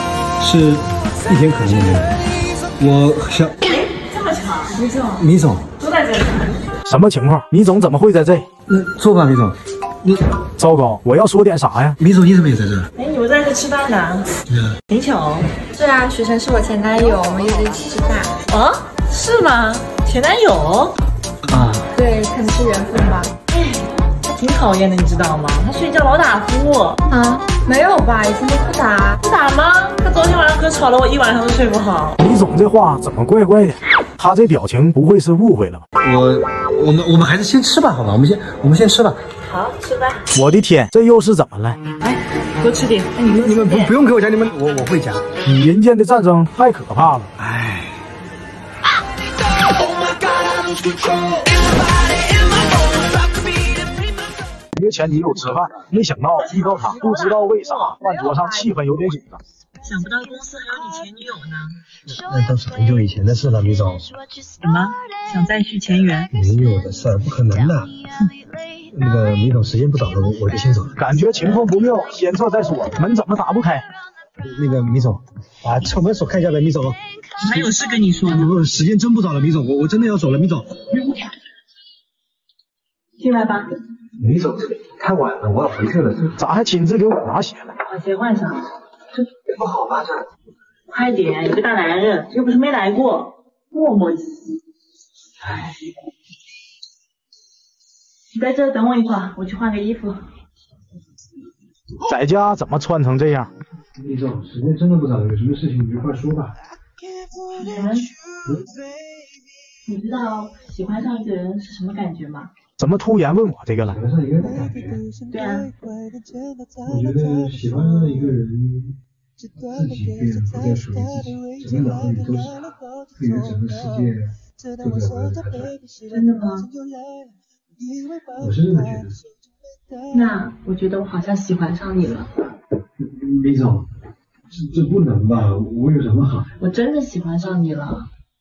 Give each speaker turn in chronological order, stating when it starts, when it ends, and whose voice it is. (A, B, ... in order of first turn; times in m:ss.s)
0:00.4-0:02.2 A
0:02.8-0:03.6 A
0:03.7-0:04.9 B
0:04.8-0:05.2 C
0:05.2-0:05.7 A
0:05.8-0:06.7 B
0:06.9-0:08.5 D
0:08.7-0:10.2 A
0:10.6-0:12.0 D
0:12.0-0:12.9 A
0:13.0-0:14.3 B
0:14.9-0:15.5 B
0:15.7-0:18.3 C
0:18.5-0:21.0 B
0:21.5-0:21.9 A
0:21.9-0:23.3 C
0:23.5-0:27.0 B
0:27.1-0:29.2 C
0:29.2-0:32.2 B
0:32.2-0:35.8 D
0:36.0-0:39.2 A
0:39.4-0:40.3 B
0:40.3-0:41.8 D
0:42.0-0:43.9 B
0:43.4-0:45.3 A
0:45.4-0:47.3 D
0:47.4-0:47.9 A
0:54.8-0:59.4 D
0:56.4-0:58.0 B
0:58.0-0:58.7 C
0:59.8-1:01.8 B
1:02.1-1:04.1 A
1:04.6-1:06.3 B
1:06.3-1:08.0 A
1:08.9-1:11.0 A
1:11.0-1:13.9 D
1:14.4-1:17.0 A
1:17.4-1:18.5 B
1:18.3-1:20.9 A
1:23.2-1:23.7 B
1:24.2-1:26.4 A
1:26.4-1:27.8 D
1:27.8-1:28.7 B
1:29.5-1:30.3 A
1:30.9-1:34.5 B
1:38.3-1:40.2 B
1:42.0-1:43.5 D
1:44.0-1:46.6 A
1:47.5-1:48.1 B
1:49.9-1:52.5 B
1:52.8-1:54.0 D
1:53.8-1:55.0 A
1:55.3-1:55.7 B
1:56.8-1:59.0 A
1:59.6-2:05.8 A
2:06.0-2:06.7 B
2:08.3-2:09.2 A
2:10.1-2:12.3 B
2:13.0-2:13.9 A
2:14.5-2:16.5 A
2:16.6-2:18.1 B